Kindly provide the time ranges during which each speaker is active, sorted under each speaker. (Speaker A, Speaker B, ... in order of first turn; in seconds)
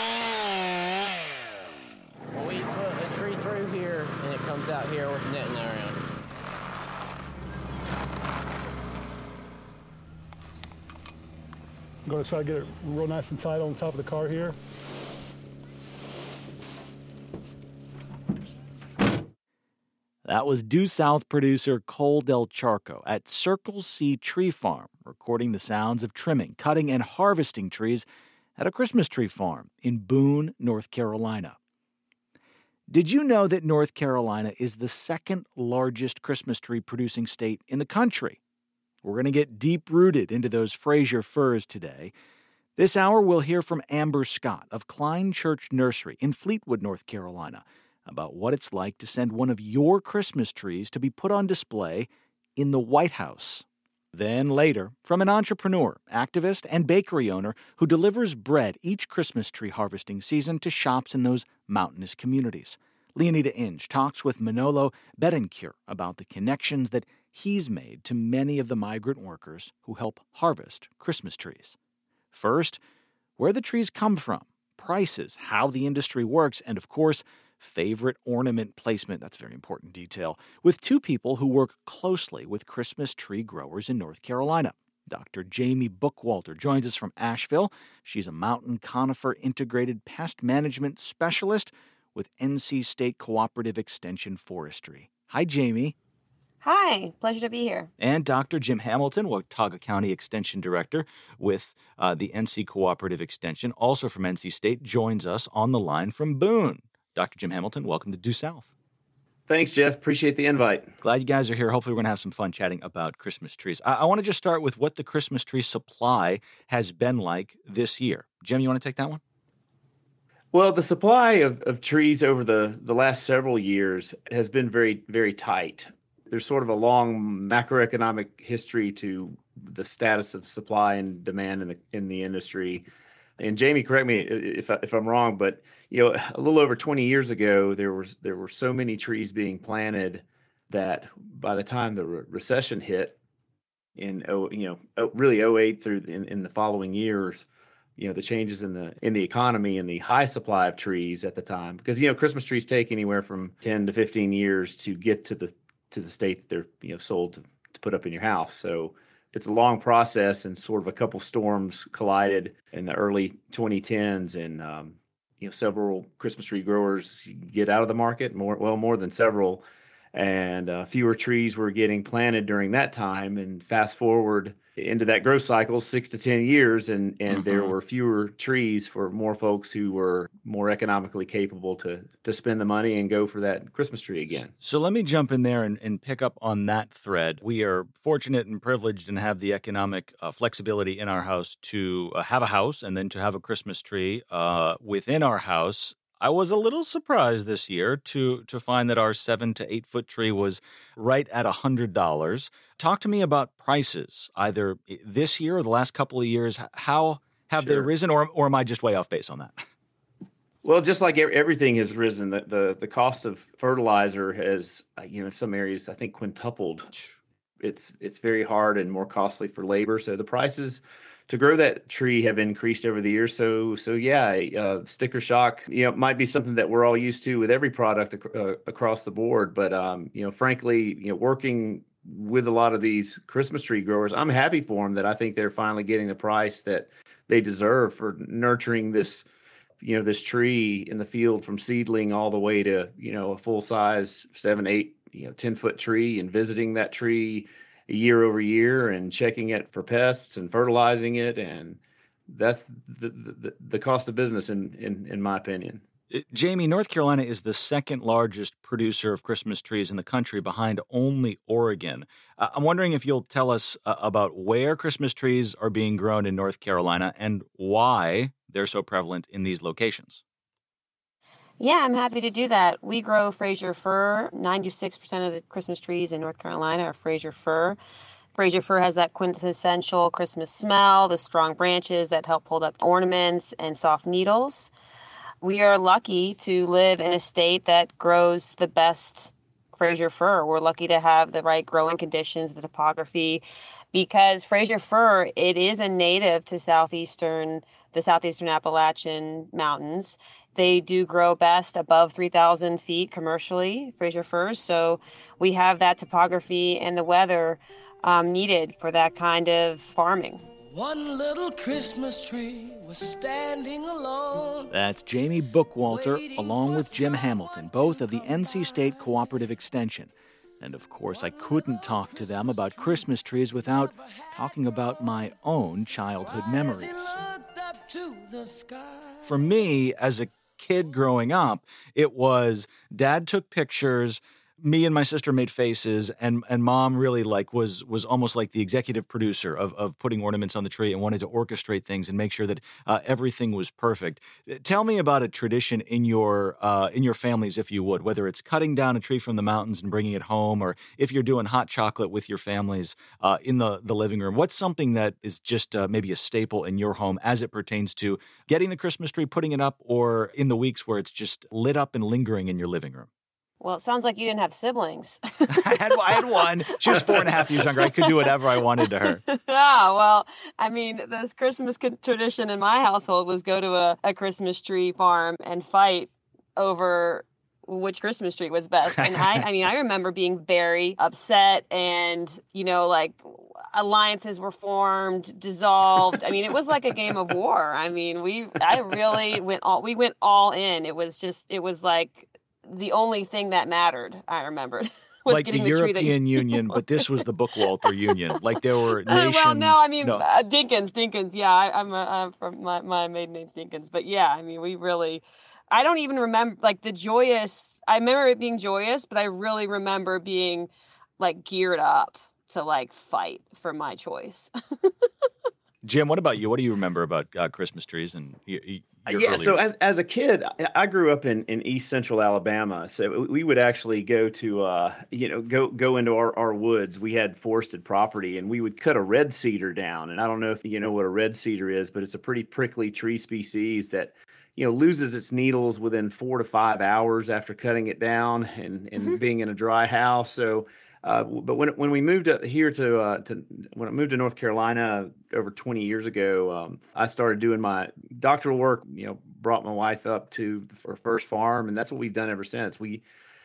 Speaker A: 2.3-6.0
Speaker B: 12.1-14.6
Speaker C: 20.2-28.1, 28.6-31.6, 32.9-38.4, 39.0-42.1, 42.8-71.8, 72.3-72.8, 73.4-96.0, 98.0-108.7, 111.0-119.2, 177.3-177.7, 184.6-209.6, 256.1-270.2, 314.7-327.2, 329.2-363.1, 365.5-369.2, 378.9-379.4, 395.3-400.2, 415.8-419.6
Speaker D: 96.6-97.9, 271.6-277.8, 278.4-284.7, 285.4-310.4, 363.6-367.1, 367.8-368.3, 369.0-397.1, 399.1-414.5
Speaker E: 109.5-110.9, 120.5-132.9, 133.4-143.2, 144.0-147.5, 148.0-169.6, 170.1-184.5, 207.6-207.9, 210.6-216.9, 217.6-239.2, 239.8-255.8, 419.1-453.0
Speaker F: 310.7-314.7, 315.9-319.5, 321.1-329.6